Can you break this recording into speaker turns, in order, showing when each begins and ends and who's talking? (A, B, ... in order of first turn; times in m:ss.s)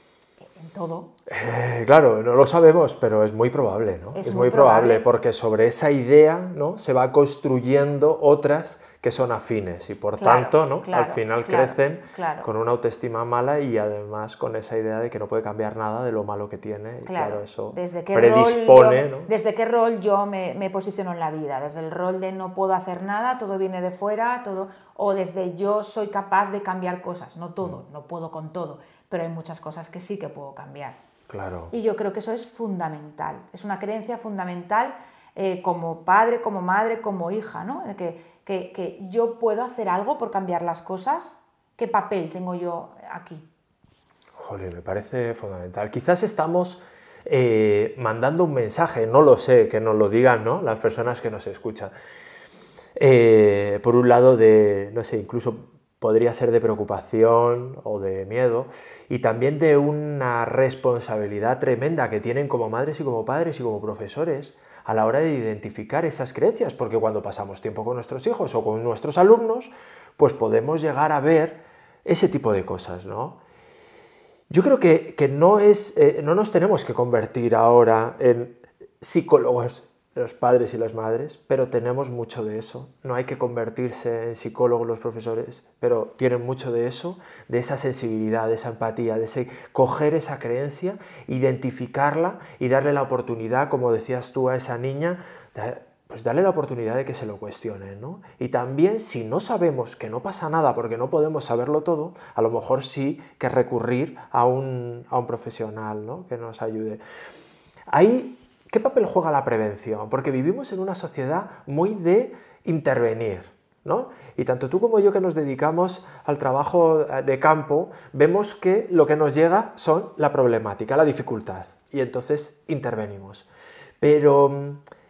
0:00.4-0:01.1 A
0:01.3-0:19.3 B
0:04.1-0:05.0 A
0:10.2-0:12.5 A
0:17.0-0:31.0 A
0:31.3-0:31.7 B
0:31.7-0:43.4 A
0:44.3-0:51.9 B
0:53.0-1:13.4 B
1:14.5-1:47.0 B
1:47.9-2:03.5 B
2:04.0-2:04.8 B